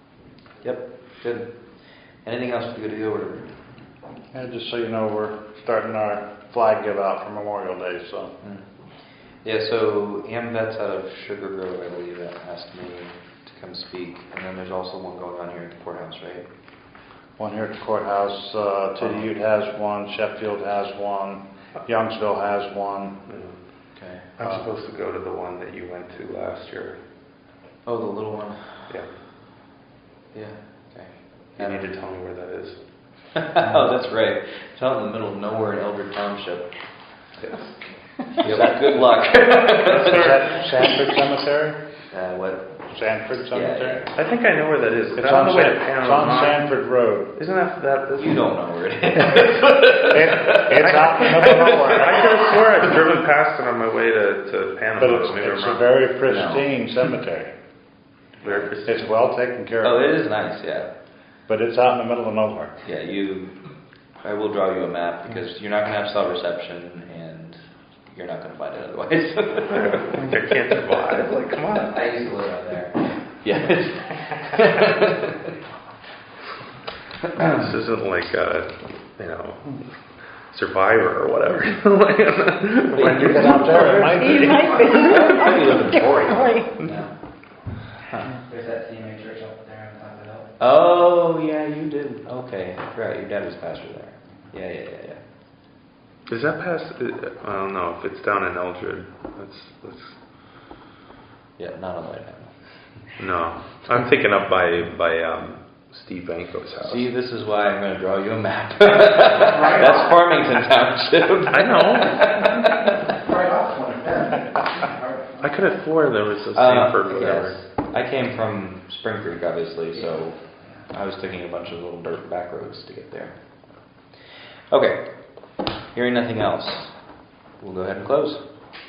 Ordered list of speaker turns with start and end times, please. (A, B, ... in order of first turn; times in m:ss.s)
0:00.6-0:03.5 A
0:04.3-0:08.3 B
0:08.4-0:16.5 A
0:17.4-0:23.2 B
0:23.3-0:23.8 C
0:23.9-0:24.3 A
0:24.4-0:27.0 C
0:24.4-0:24.7 B
0:27.8-0:29.0 A
0:30.3-0:31.9 A
0:31.5-0:32.9 C
0:33.4-0:36.8 A
0:37.4-0:37.7 C
0:38.4-0:40.7 A
0:38.4-0:38.6 C
0:39.9-0:41.8 B
0:42.1-0:42.8 A
0:42.9-0:44.0 B
0:43.5-0:44.1 A
0:44.1-0:46.6 C
0:45.1-0:47.3 B
0:47.3-0:48.4 C
0:48.1-0:53.1 A
0:50.1-0:52.1 B
0:50.8-0:56.1 C
0:55.0-0:57.5 B
0:56.2-0:56.7 A
0:58.4-0:58.8 A
0:58.4-0:59.1 C
0:58.8-1:00.1 B
0:59.8-1:00.9 A
1:01.5-1:02.8 B
1:02.8-1:03.6 A
1:04.2-1:15.5 A
1:09.7-1:11.9 C
1:17.4-1:23.7 C
1:22.9-1:27.1 A
1:23.0-1:24.8 B
1:24.2-1:25.6 D
1:28.0-1:28.4 A
1:28.5-1:30.3 D
1:30.6-1:35.2 A
1:36.3-1:40.4 C
1:41.6-1:43.2 A
1:43.2-1:47.1 C
1:46.8-1:53.0 A
1:51.5-1:52.3 C
1:55.4-1:57.6 C
1:56.5-2:04.1 A
2:04.7-2:08.4 A